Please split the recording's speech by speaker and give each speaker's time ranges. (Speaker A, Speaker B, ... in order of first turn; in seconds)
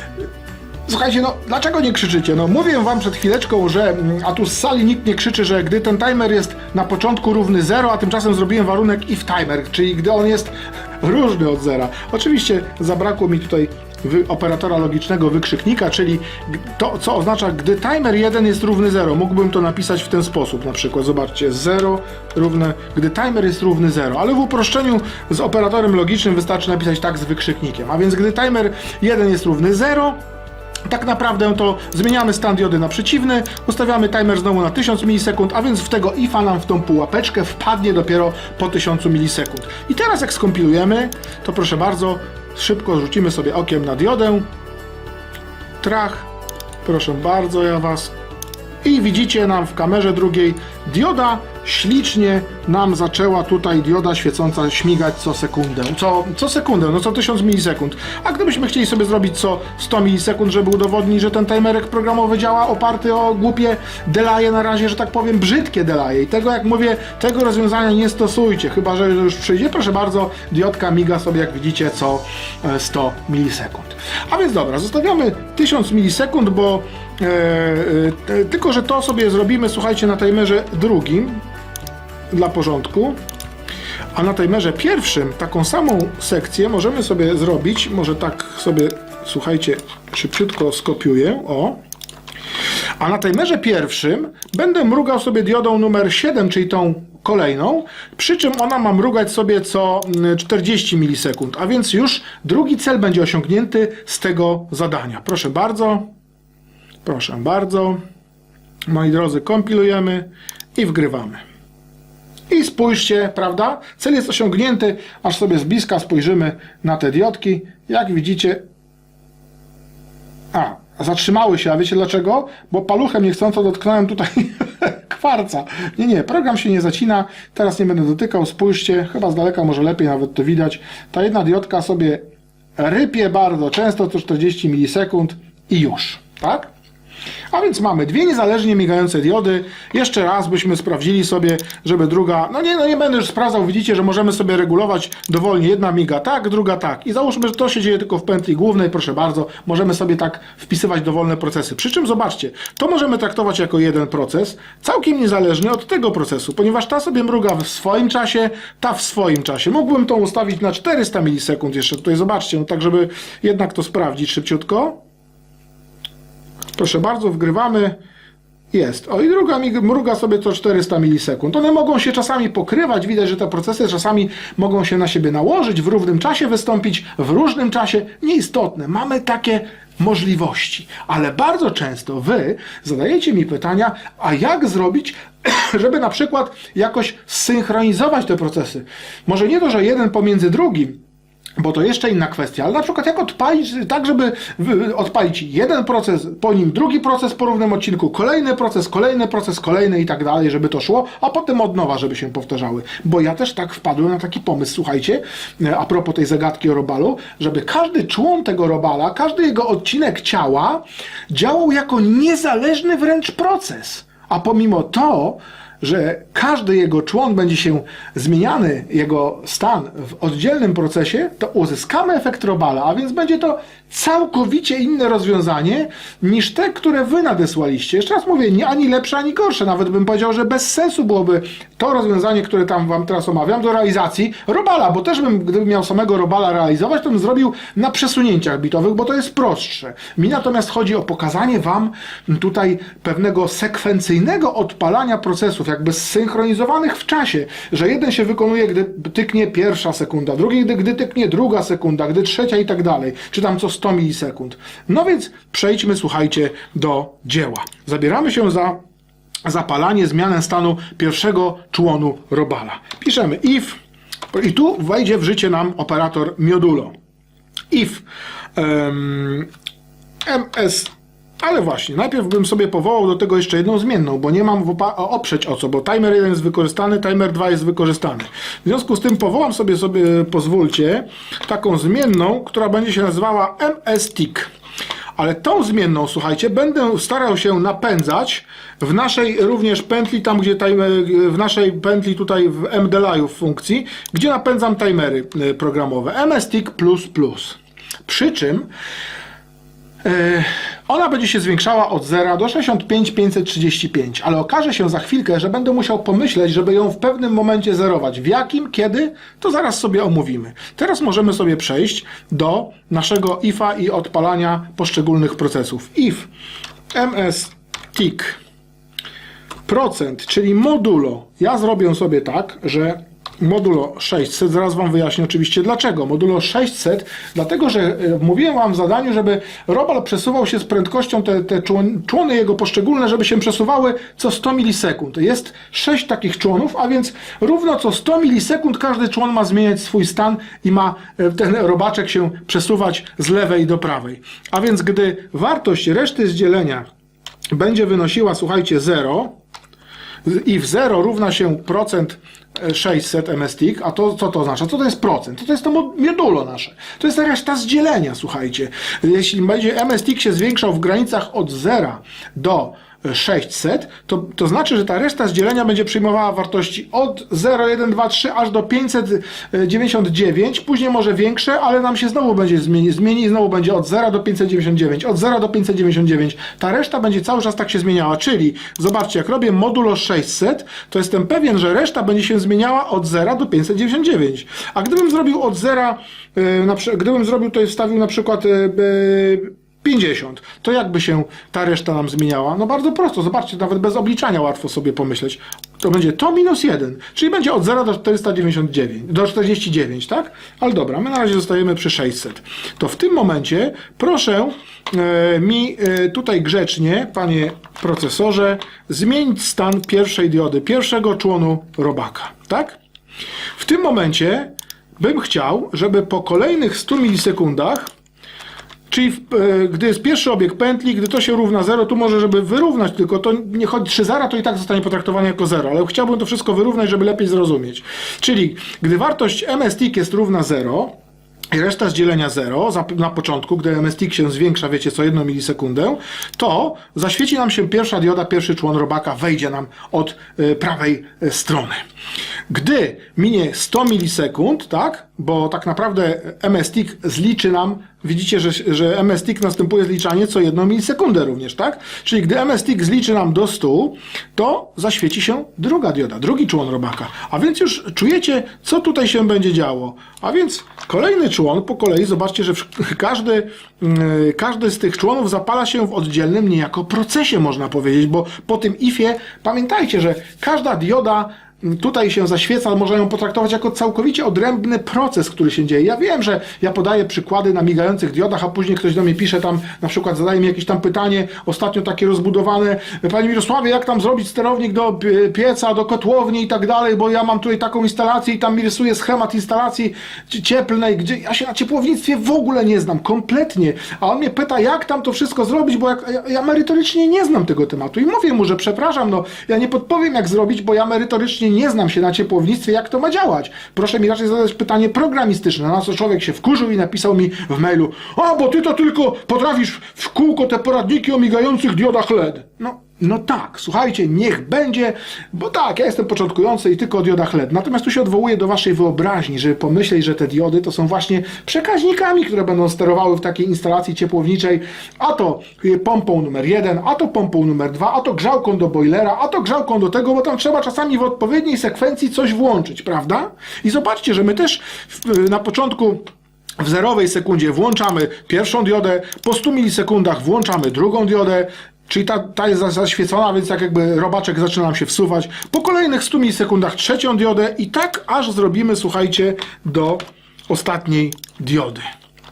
Speaker A: 0.9-30.2, 30.9-44.5, 45.8-46.3, 46.8-48.1, 48.8-81.4, 82.3-83.2, 84.1-91.8, 93.0-106.1, 107.0-108.0, 108.9-111.4, 112.5-118.6, 120.5-132.2, 132.8-136.7, 137.5-165.0, 166.8-168.0, 168.7-191.0, 191.6-258.8, 259.5-263.8, 264.3-266.9, 267.7-268.0, 268.6-269.5, 270.2-284.5, 285.1-298.7, 300.0-316.3, 316.9-318.4, 319.6-346.9, 347.5-349.4, 350.2-412.8, 413.6-417.9, 418.9-430.9, 431.5-441.8, 442.5-536.0, 536.6-551.9